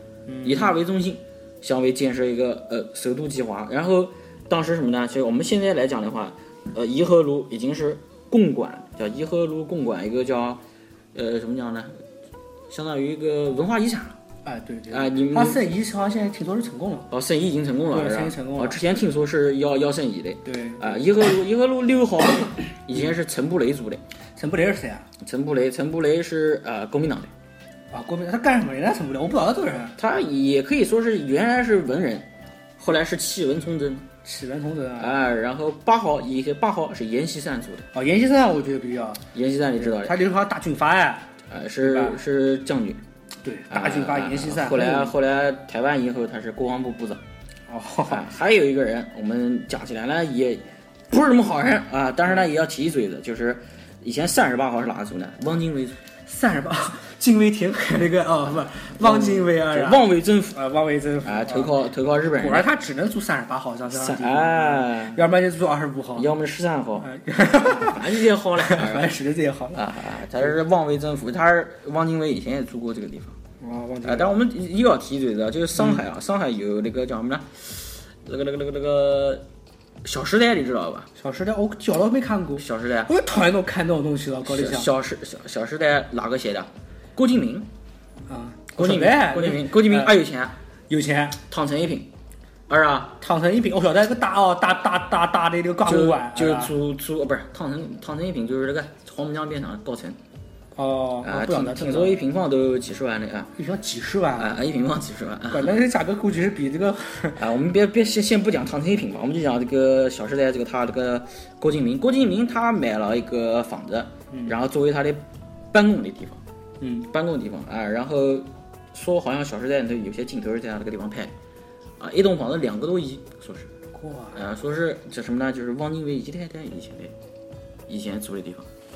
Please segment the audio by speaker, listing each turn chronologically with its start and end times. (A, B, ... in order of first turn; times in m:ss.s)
0:00.3-0:00.7 A
0:00.4-0:10.6 B
0:11.1-0:11.9 B
0:12.7-0:14.2 B
0:14.4-0:17.1 A
0:14.9-0:15.6 B
0:17.1-0:24.0 B
0:17.9-0:18.8 A
0:20.4-0:21.0 A
0:24.4-0:25.1 A
0:25.2-0:27.3 B
0:27.9-0:30.0 A
0:30.0-0:32.2 B
0:32.8-0:34.0 B
0:34.2-0:35.2 A
0:35.0-0:37.9 B
0:37.9-0:41.3 A
0:39.3-0:40.2 B
0:41.5-0:43.0 B
0:41.8-0:42.2 A
0:43.4-0:45.1 A
0:43.7-0:47.2 B
0:47.7-0:48.3 A
0:48.1-0:56.0 B
0:56.2-1:01.7 A
0:59.0-1:00.6 B
1:01.2-1:02.7 B
1:02.4-1:06.3 A
1:03.9-1:05.2 B
1:06.2-1:07.1 B
1:07.0-1:09.8 A
1:07.8-1:09.2 B
1:09.7-1:13.4 B
1:13.6-1:14.3 A
1:14.0-1:19.4 B
1:15.8-1:16.0 A
1:20.0-1:21.1 B
1:21.2-1:24.9 A
1:22.6-1:23.1 B
1:24.4-1:27.7 B
1:28.3-1:30.1 A
1:28.8-1:30.5 B
1:30.9-1:31.4 A
1:31.5-1:32.1 B
1:32.7-1:33.2 B
1:33.2-1:36.7 A
1:35.8-1:40.2 B
1:40.7-1:42.2 A
1:41.2-1:43.5 B
1:43.6-1:44.6 A
1:44.4-1:45.8 B
1:45.5-1:47.4 A
1:47.4-1:56.4 B
1:54.3-1:54.6 A
1:56.8-1:57.1 A
1:57.1-2:01.3 B
2:02.0-2:03.7 B
2:03.9-2:04.4 A
2:04.3-2:07.1 B
2:07.9-2:08.7 B